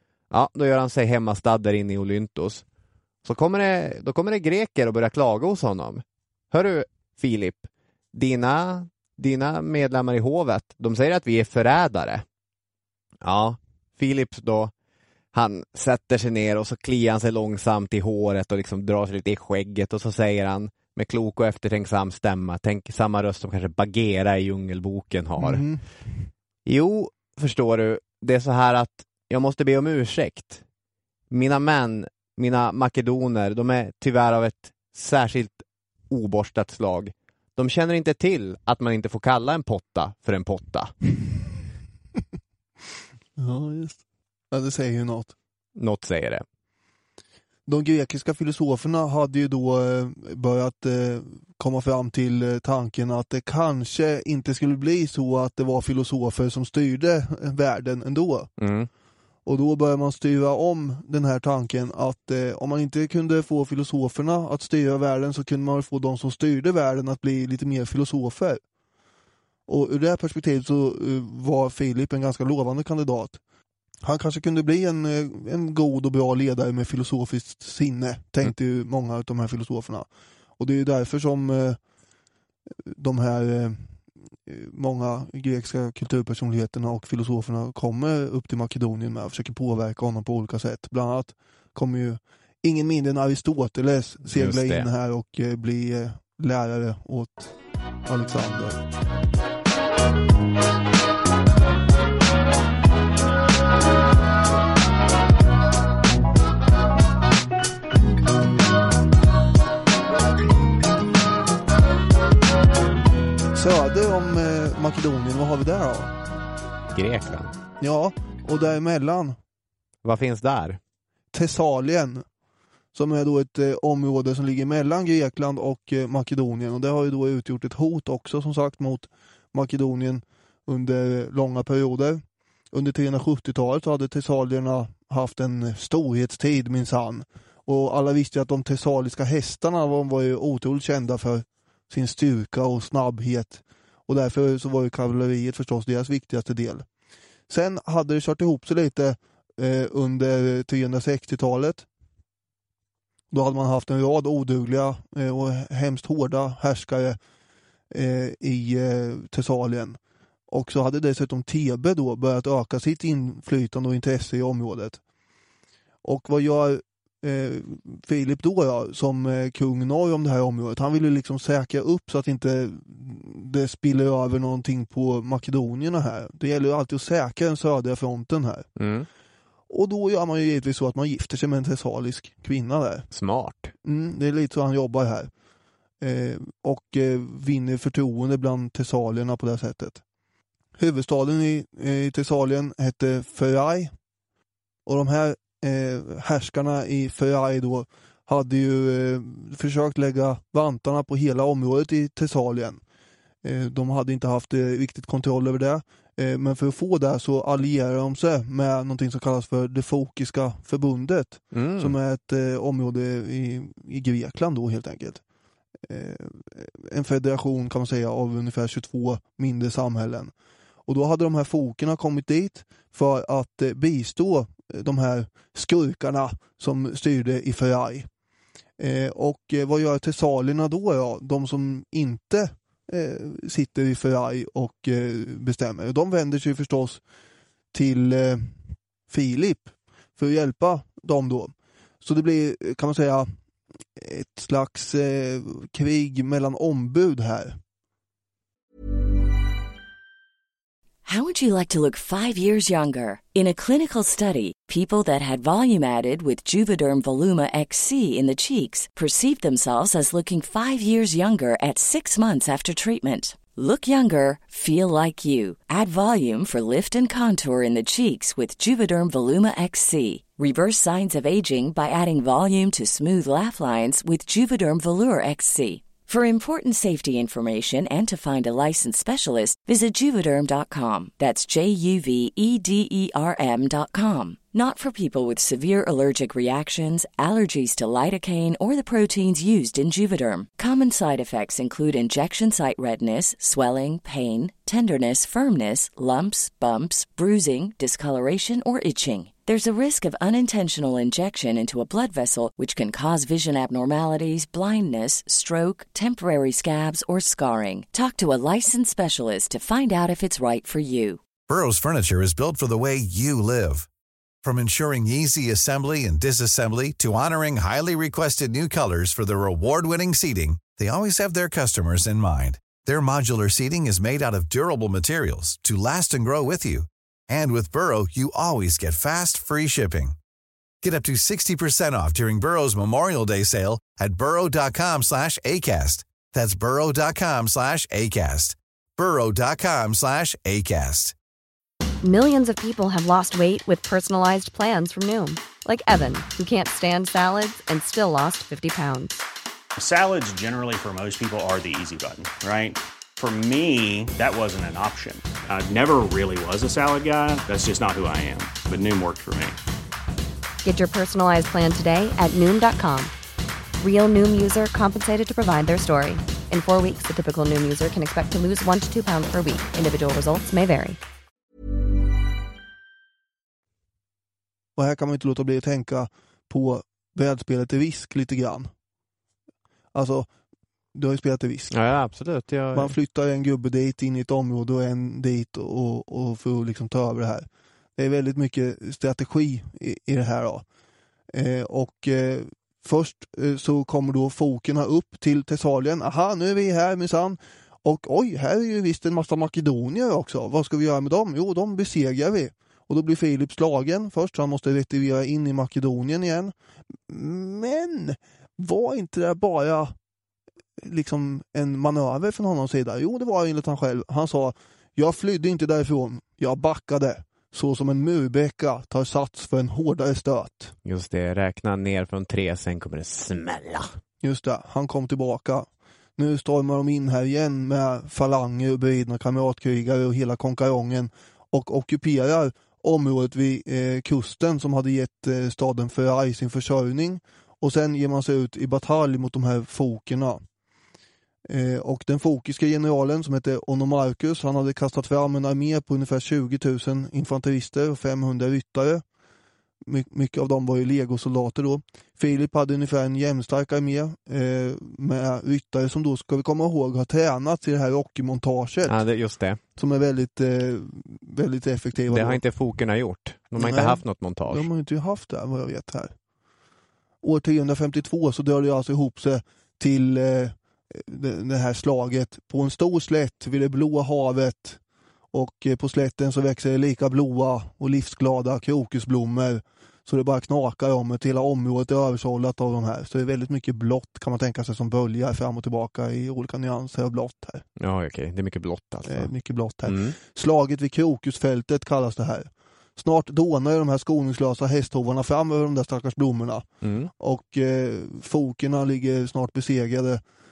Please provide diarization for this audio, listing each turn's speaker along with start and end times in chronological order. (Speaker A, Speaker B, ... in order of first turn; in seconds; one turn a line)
Speaker A: 0.3-2.6
Speaker A: 3.2-12.2
Speaker A: 13.2-14.7
Speaker A: 15.3-25.6
Speaker B: 25.4-25.8
Speaker A: 26.7-30.6
Speaker A: 31.3-40.9
Speaker B: 43.4-44.0
Speaker B: 44.5-45.4
Speaker A: 45.8-46.4
Speaker B: 47.7-58.5
Speaker A: 58.6-58.9
Speaker B: 59.5-68.6
Speaker B: 69.7-73.4
Speaker B: 74.0-80.1
Speaker B: 80.6-81.8
Speaker B: 82.9-97.5
Speaker A: 94.3-94.9
Speaker B: 98.1-98.8
Speaker B: 113.5-116.2
Speaker A: 116.9-117.6
Speaker B: 117.8-119.4
Speaker A: 120.0-120.8
Speaker B: 121.3-122.2
Speaker B: 122.9-146.9
Speaker B: 147.5-151.9
Speaker B: 153.3-157.2
Speaker B: 157.9-160.0
Speaker B: 160.5-165.0
Speaker B: 166.0-178.7
Speaker A: 178.8-179.1
Speaker B: 179.7-183.1
Speaker A: 183.1-183.7
Speaker B: 183.8-185.3
Speaker B: 186.0-190.0
Speaker B: 190.8-193.9
Speaker B: 194.9-202.8
Speaker B: 203.4-215.2
Speaker A: 211.5-211.9
Speaker B: 215.9-220.3
Speaker B: 220.9-228.1
Speaker B: 228.8-237.0
Speaker B: 237.7-238.5
Speaker B: 239.1-243.3
Speaker B: 244.0-247.6
Speaker C: 251.1-311.2
Speaker D: 311.5-313.9
Speaker D: 314.4-330.2
Speaker D: 330.8-341.1
Speaker E: 342.0-349.2
Speaker F: 349.8-359.6
Speaker E: 360.6-363.1
Speaker E: 363.8-371.0
Speaker B: 374.8-378.7
Speaker B: 379.9-380.3
Speaker B: 380.9-381.7
Speaker A: 381.7-382.9
Speaker B: 382.7-387.5
Speaker B: 388.0-390.6
Speaker B: 391.3-406.5
Speaker B: 407.1-409.9
Speaker B: 410.8-420.7
Speaker A: 420.9-423.9
Speaker B: 424.2-440.4
Speaker B: 441.5-449.0
Speaker B: 449.8-459.0
Speaker A: 458.9-459.6
Speaker B: 459.8-462.4
Speaker A: 462.1-464.7
Speaker B: 463.6-466.1
Speaker B: 467.2-474.8
Speaker B: 475.3-487.6
Speaker A: 487.8-489.3
Speaker B: 489.1-496.7
Speaker A: 489.9-490.2
Speaker A: 496.8-497.1
Speaker B: 497.2-500.2